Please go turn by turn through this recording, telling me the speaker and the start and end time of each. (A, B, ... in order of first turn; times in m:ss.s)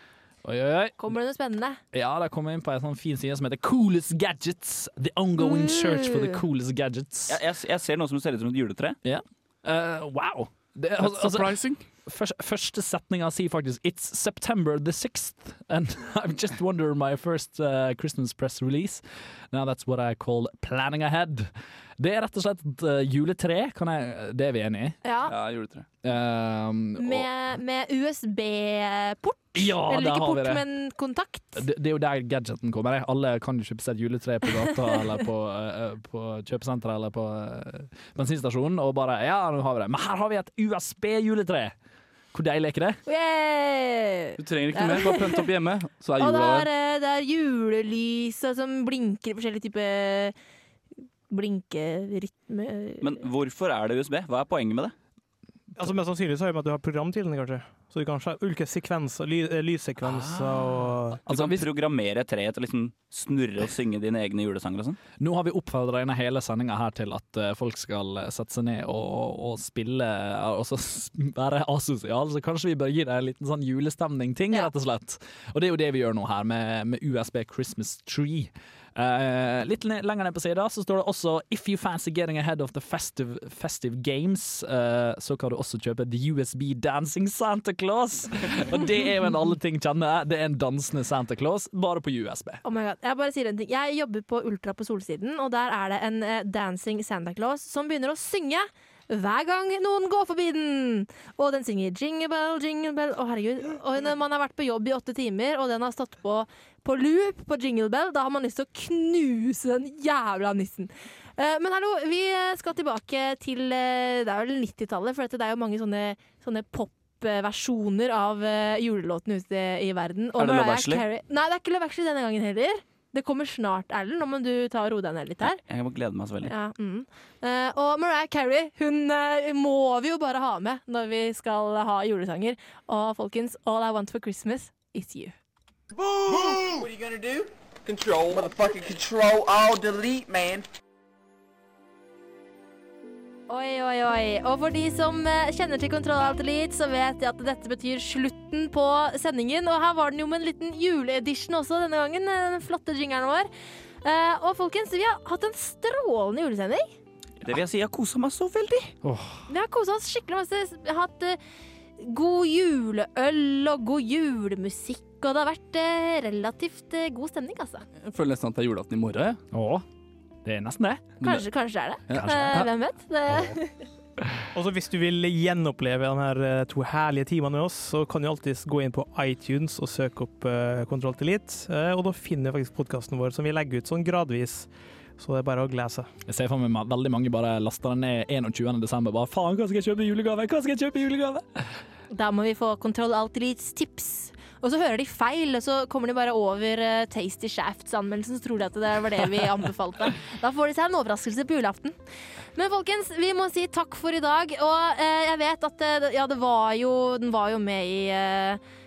0:00.4-0:01.1 A
0:01.0-0:01.8 B
0:01.9-0:07.4 A
0:05.4-0:06.4 B
0:07.3-0:09.0 C
0:09.0-0:25.0 A
0:11.0-0:11.8 D
0:25.0-0:25.4 B
0:25.2-0:25.9 D
0:26.0-0:27.3 A
0:27.0-0:31.6 B
0:29.6-0:30.6 A
0:31.6-0:41.7 A
0:34.8-0:35.0 B
0:42.3-0:43.0 A
0:43.1-0:45.5 B
0:44.4-0:46.7 D
0:46.2-0:50.4 B
0:51.3-0:53.2 B
0:53.0-0:55.0 C
0:55.8-1:01.3 E
1:00.2-1:00.7 C
1:01.2-1:05.0 C
1:05.2-1:32.6 A
1:32.6-2:05.6 B
2:00.4-2:01.0 C
2:05.5-2:06.5 C
2:06.4-2:15.4 B
2:15.9-2:20.7 F
2:23.5-2:33.5 B
2:34.0-2:36.9 B
2:37.4-2:39.0 C
2:39.0-2:39.4 A
2:39.5-2:41.4 B
2:42.0-2:47.8 B
2:48.0-2:49.4 D
2:49.5-2:49.8 A
2:50.4-2:51.2 A
2:51.2-2:53.8 B
2:52.1-2:52.7 D
2:52.1-2:52.7 A
2:54.5-3:06.1 E
3:06.3-3:11.7 A
3:12.1-3:22.0 B
3:22.6-3:28.6 B